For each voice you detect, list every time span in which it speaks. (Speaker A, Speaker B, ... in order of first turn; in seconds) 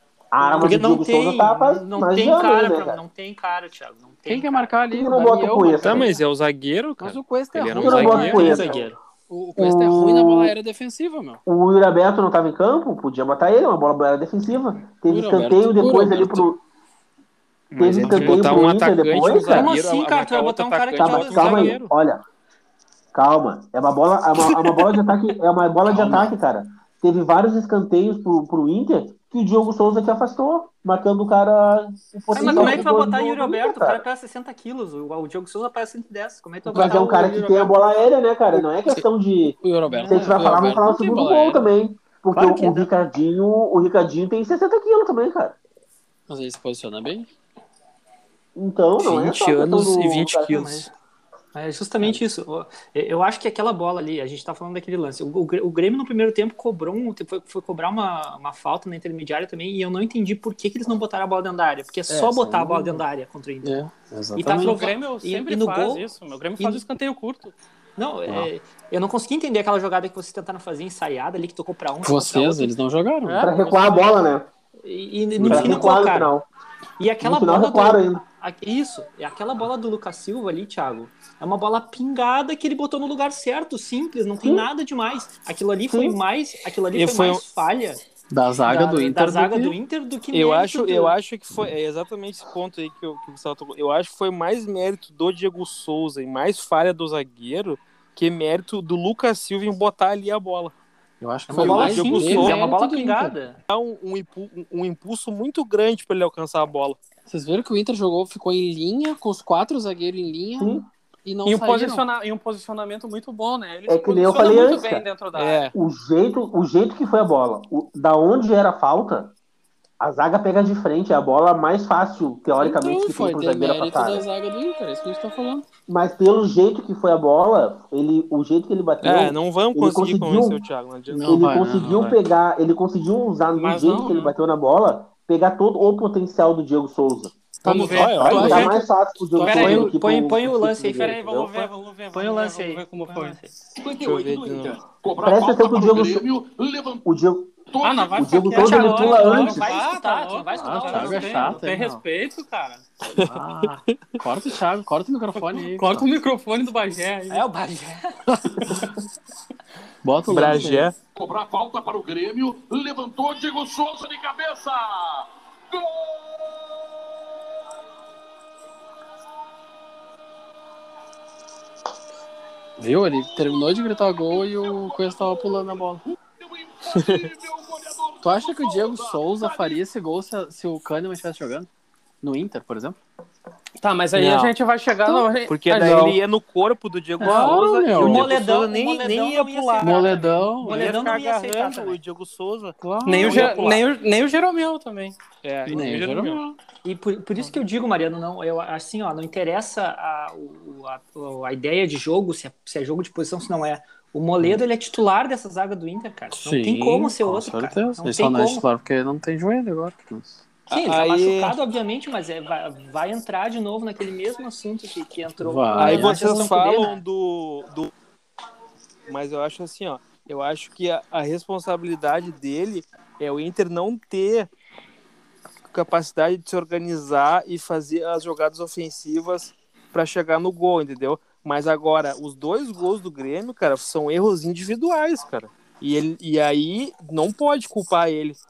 Speaker A: 0.3-3.0, 4.9-6.1, 7.8-8.8, 9.6-10.5, 11.5-16.6, 17.8-19.7, 21.0-22.2, 23.1-34.0, 36.7-45.6, 48.6-50.8, 73.4-74.5, 75.4-76.5, 77.2-78.2, 84.4-84.7, 85.9-86.2, 110.6-110.9, 113.9-115.0, 115.7-119.3, 120.0-124.2, 125.9-130.6, 131.3-137.3, 138.2-141.5, 145.2-146.3, 147.1-147.6, 148.2-149.7
Speaker B: 0.4-0.8, 32.4-32.9, 64.5-67.5, 73.2-74.2, 111.5-115.7, 133.6-134.3, 137.7-138.7, 139.4-139.9, 140.9-143.4, 147.8-152.8, 155.4-157.4, 183.8-186.2, 193.1-195.2
Speaker C: 0.6-4.7, 8.1-9.0, 19.5-21.8, 32.3-37.8, 39.9-40.2, 42.3-42.9, 51.5-63.8, 64.4-66.0, 66.6-66.8, 68.0-72.8, 74.8-76.3, 77.0-88.0, 88.7-91.2, 101.5-103.6, 139.4-143.5, 148.6-151.6, 157.3-158.2, 187.2-192.0, 193.2-193.8, 196.8-208.7, 210.7-217.0
Speaker D: 4.3-6.2, 7.0-11.4, 15.1-16.5, 18.0-18.5, 25.9-26.3, 38.5-39.1, 39.6-41.7, 46.3-47.3, 62.1-63.0, 63.6-64.9, 72.0-73.5, 75.4-76.0, 88.3-89.8, 101.2-103.4, 107.3-112.1, 122.6-125.7, 131.1-132.1, 137.7-138.8, 139.3-139.9, 150.6-152.0, 153.2-156.1, 158.3-158.8, 160.0-160.9, 172.8-176.0, 178.2-181.7, 182.2-183.0, 187.2-188.3, 189.8-190.9, 192.8-193.5, 195.7-196.6, 206.3-210.4, 215.4-216.5
Speaker E: 5.8-8.4, 17.7-21.9, 49.0-50.9, 86.9-87.4, 90.3-100.7, 101.5-102.6, 103.7-107.0, 115.3-115.7, 129.0-132.2, 137.7-138.8, 144.0-144.8, 153.0-154.2, 160.3-160.9, 177.0-177.2, 184.2-184.5, 185.5-193.8, 195.4-196.4, 210.7-211.6, 215.8-217.9, 219.1-224.5, 225.7-238.4
Speaker F: 143.8-147.0, 147.7-149.1, 161.2-166.2, 173.4-173.7, 174.4-175.8, 176.4-179.8